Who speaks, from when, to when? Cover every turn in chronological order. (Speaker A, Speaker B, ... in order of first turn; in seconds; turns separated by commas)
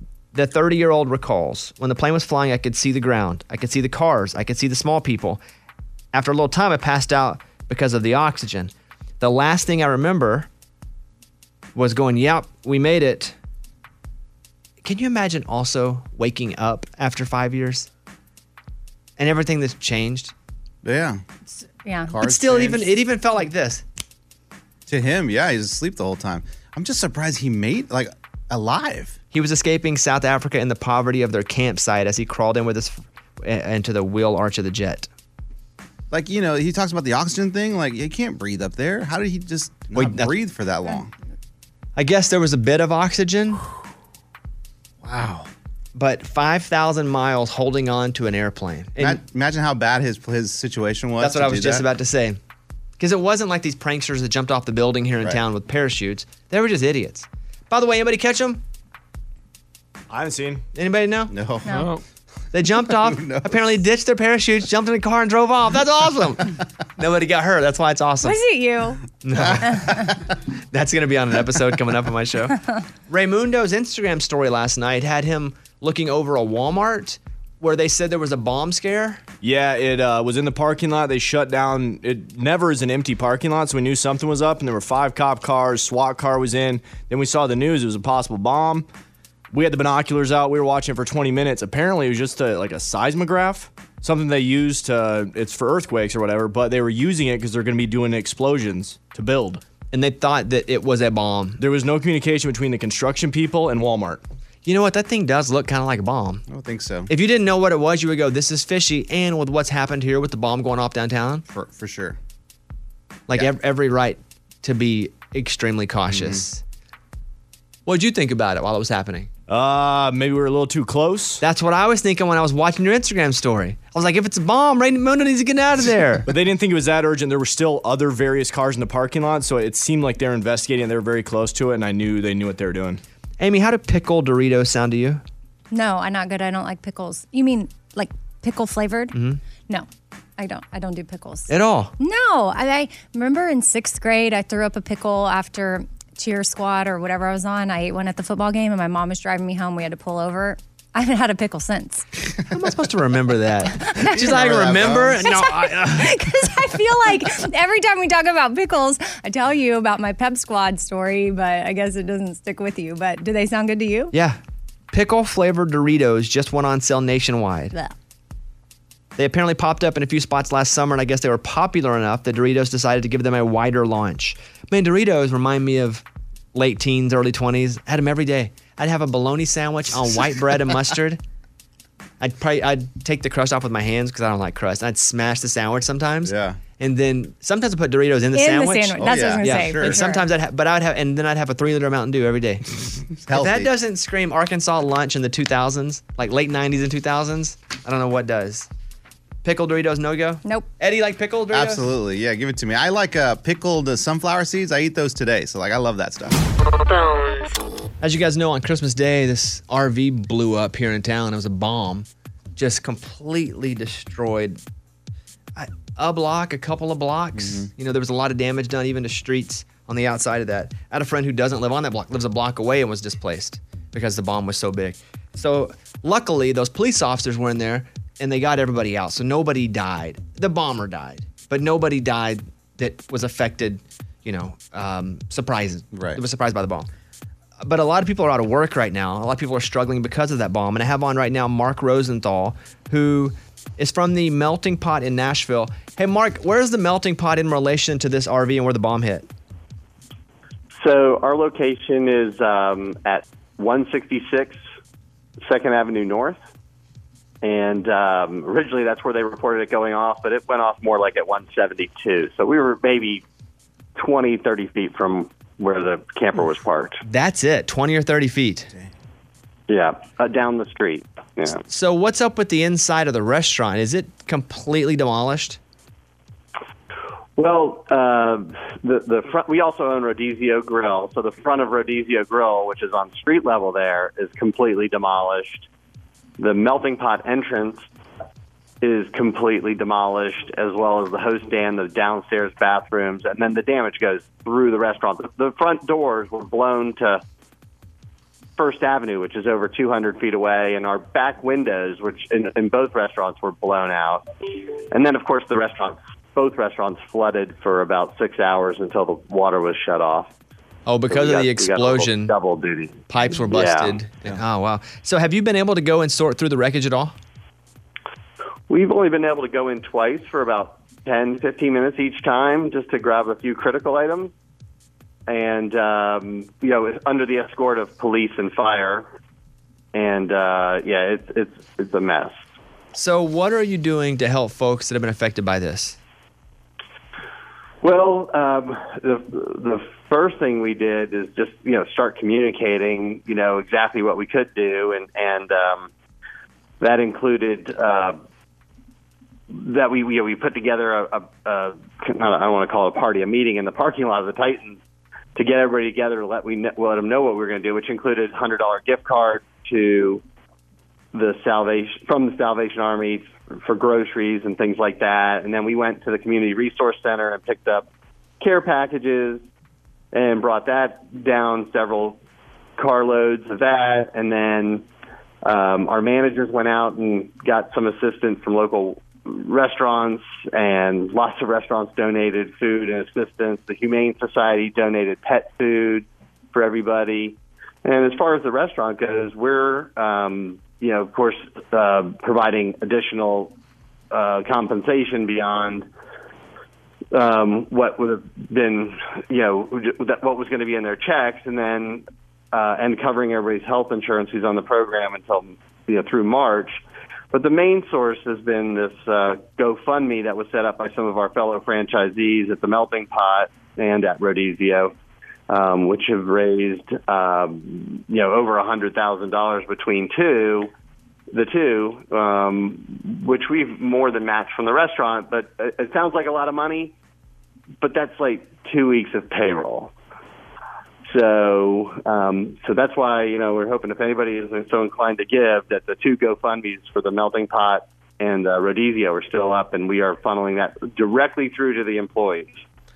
Speaker A: 0.3-5.4, Speaker A: 6.1-10.5, Speaker A: 11.7-13.3, Speaker A: 14.8-17.9, Speaker A: 19.2-20.3, Speaker B: 20.8-21.2, Speaker C: 21.8-22.1, Speaker B: 22.1-22.9, Speaker A: 22.2-23.8, Speaker B: 24.9-29.1, Speaker A: 29.3-35.1, Speaker B: 36.1-41.1, Speaker A: 39.9-40.3, Speaker A: 42.0-43.6, Speaker B: 45.0-45.5, Speaker A: 45.9-49.2, Speaker B: 49.0-51.8, Speaker A: 51.2-52.4, Speaker A: 53.0-58.6, Speaker D: 60.1-60.6, Speaker A: 60.7-61.3, Speaker B: 61.3-62.0, Speaker A: 62.5-68.4, Speaker B: 62.8-63.8, Speaker C: 68.2-69.0, Speaker A: 69.2-70.1, Speaker B: 69.3-70.1, Speaker C: 69.6-69.9, Speaker A: 70.7-72.6, Speaker A: 73.1-79.2, Speaker D: 79.4-88.9, Speaker D: 89.5-99.6, Speaker A: 99.9-101.6, Speaker D: 101.6-104.2, Speaker A: 104.7-106.4, Speaker B: 106.5-107.1, Speaker A: 107.1-111.4, Speaker B: 111.5-112.2, Speaker A: 113.3-116.6, Speaker B: 116.1-116.4, Speaker A: 117.9-119.3, Speaker D: 119.5-121.4, Speaker A: 121.4-126.2, Speaker D: 126.3-133.0, Speaker A: 133.4-135.2, Speaker C: 135.7-139.2, Speaker A: 139.1-139.4, Speaker C: 140.4-152.1, Speaker A: 141.5-141.9, Speaker A: 152.5-156.2, Speaker B: 154.0-155.2, Speaker C: 155.2-164.1, Speaker A: 164.1-164.4, Speaker A: 164.9-167.7, Speaker A: 169.2-176.0, Speaker A: 176.5-181.2, Speaker A: 182.2-198.7, Speaker B: 186.2-186.6, Speaker C: 188.3-190.2, Speaker B: 189.0-190.0, Speaker B: 193.2-193.7, Speaker A: 199.4-201.8, Speaker B: 201.5-206.4, Speaker A: 208.0-214.6, Speaker A: 215.6-236.9, Speaker B: 217.3-217.7, Speaker B: 235.9-236.2, Speaker A: 237.6-249.3, Speaker E: 250.8-254.6, Speaker E: 255.4-256.4, Speaker E: 257.4-263.2, Speaker E: 263.9-267.0, Speaker A: 267.1-268.7, Speaker E: 269.7-271.6, Speaker A: 271.7-275.6, Speaker E: 277.4-285.7, Speaker E: 286.4-287.8, Speaker E: 288.8-297.2, Speaker E: 298.6-304.2, Speaker E: 304.9-310.3, Speaker A: 310.9-312.3, Speaker E: 311.1-314.0, Speaker A: 313.1-317.1, Speaker E: 318.7-324.3, Speaker E: 325.3-329.1, Speaker E: 329.9-332.4, Speaker A: 332.9-336.0, Speaker E: 337.8-345.9, Speaker E: 346.8-348.2, Speaker E: 349.5-354.8, Speaker E: 355.3-360.2, Speaker E: 361.1-367.9, Speaker E: 368.4-369.4, Speaker E: 370.1-372.2, Speaker E: 372.8-374.8, Speaker E: 375.4-393.5, Speaker E: 394.1-395.9, Speaker E: 397.1-406.8, Speaker E: 407.3-414.9, Speaker E: 415.5-420.7, Speaker E: 421.3-426.9, Speaker E: 427.8-429.9, Speaker E: 431.1-442.6